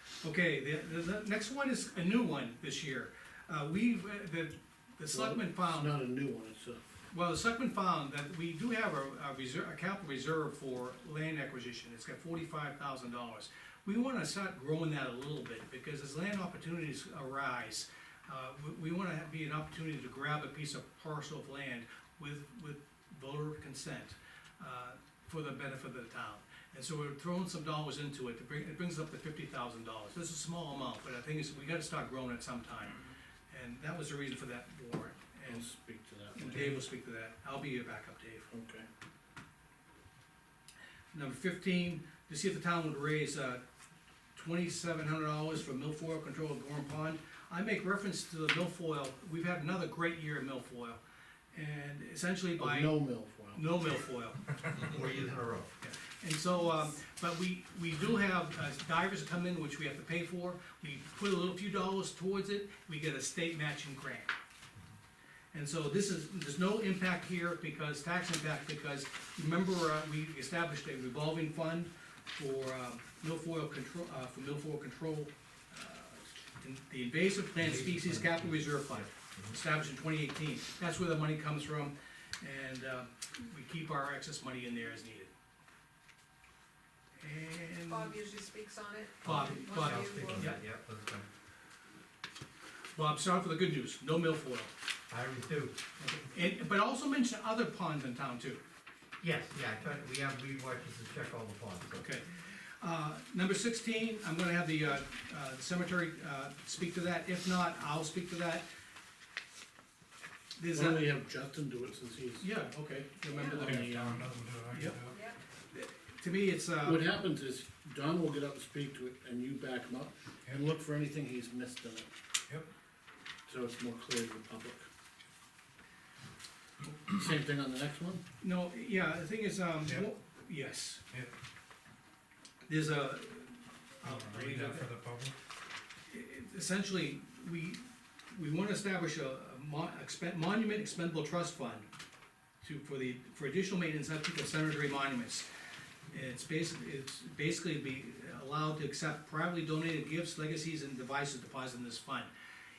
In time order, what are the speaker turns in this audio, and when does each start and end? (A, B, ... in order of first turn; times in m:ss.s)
0:00.2-0:05.9 A
0:05.1-0:06.8 B
0:07.1-0:35.7 A
0:35.5-0:36.8 B
0:36.4-0:38.5 A
0:38.5-0:38.9 B
0:41.1-0:43.6 A
0:44.4-0:51.0 A
0:51.5-0:53.0 A
0:52.6-0:53.6 B
0:53.5-0:54.6 A
0:54.7-0:55.7 C
0:55.8-1:04.3 A
1:05.5-1:25.3 A
1:17.6-1:19.6 C
1:27.2-1:28.2 A
1:27.9-1:30.6 D
1:29.2-1:31.3 C
1:29.2-1:30.6 A
1:33.0-1:34.7 A
1:35.1-1:35.8 C
1:36.0-1:38.6 A
1:39.2-1:42.0 C
1:42.0-1:42.3 A
1:42.8-1:48.7 A
1:50.6-1:51.1 A
1:50.7-1:52.5 B
1:52.4-1:53.8 A
1:53.3-1:53.6 D
1:53.5-1:55.2 E
1:53.6-1:54.3 B
1:54.7-1:55.0 A
1:55.1-1:55.4 D
1:55.7-1:57.1 A
1:56.8-2:02.1 B
2:03.5-2:04.9 B
2:07.1-2:08.2 B
2:08.4-2:11.0 A
2:12.7-2:14.9 A
2:14.0-2:15.4 E
2:16.1-2:21.9 A
2:22.6-2:25.5 A
2:26.1-2:32.3 A